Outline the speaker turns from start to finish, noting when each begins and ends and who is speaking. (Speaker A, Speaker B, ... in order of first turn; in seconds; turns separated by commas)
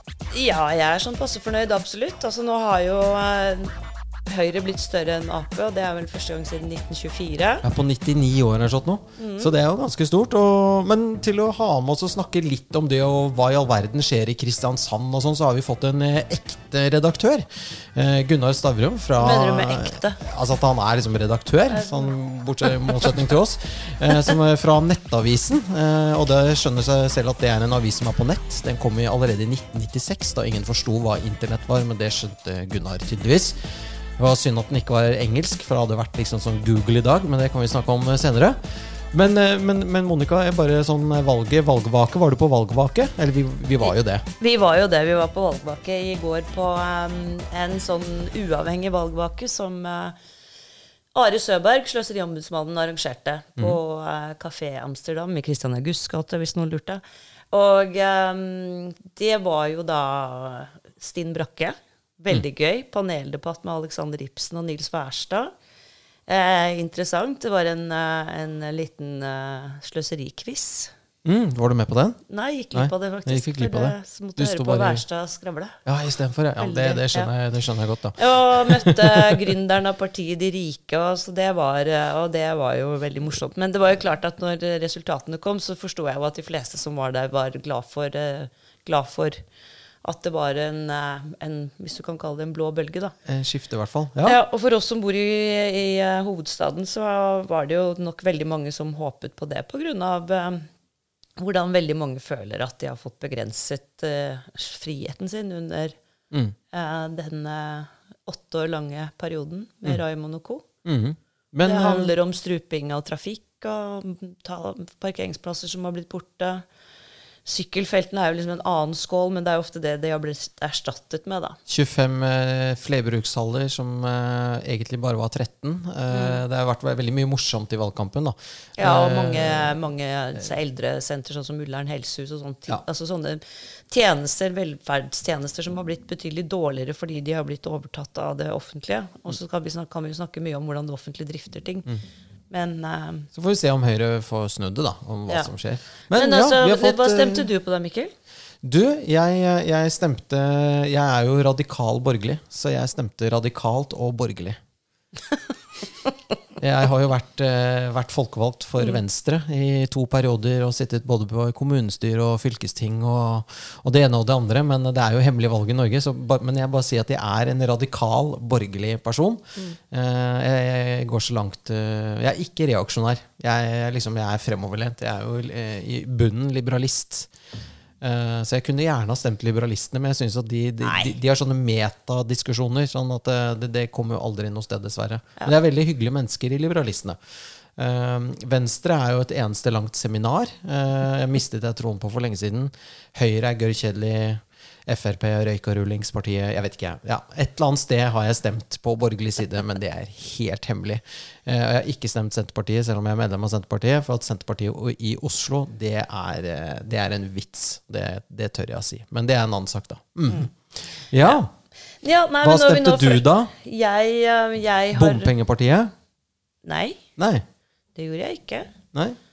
Speaker A: 0.3-3.8, Speaker A: 4.3-7.6, Speaker B: 7.6-33.6, Speaker A: 9.2-9.5, Speaker A: 19.2-20.2, Speaker A: 21.7-22.1, Speaker B: 34.2-44.2, Speaker A: 43.8-50.2, Speaker A: 51.1-65.5, Speaker A: 66.3-70.9, Speaker B: 71.2-72.2, Speaker A: 72.3-75.8, Speaker B: 72.7-75.0, Speaker B: 75.9-79.4, Speaker A: 76.6-77.3, Speaker A: 78.2-89.4, Speaker A: 90.0-93.2, Speaker B: 93.3-94.4, Speaker A: 94.2-100.7, Speaker A: 101.4-106.0, Speaker B: 106.3-106.6, Speaker A: 106.7-110.7, Speaker B: 110.8-112.1, Speaker A: 111.7-116.7, Speaker A: 117.5-121.6, Speaker B: 121.7-129.8, Speaker A: 126.1-126.4, Speaker A: 128.8-141.9, Speaker A: 142.5-143.3, Speaker B: 143.3-147.5, Speaker A: 146.1-148.1, Speaker B: 148.6-154.6, Speaker B: 156.6-177.3, Speaker B: 178.0-187.2, Speaker A: 180.8-181.1, Speaker B: 187.8-211.5, Speaker A: 212.0-215.3, Speaker B: 212.4-213.5, Speaker B: 214.9-215.9, Speaker A: 216.6-217.0, Speaker B: 217.2-217.4, Speaker A: 217.9-218.7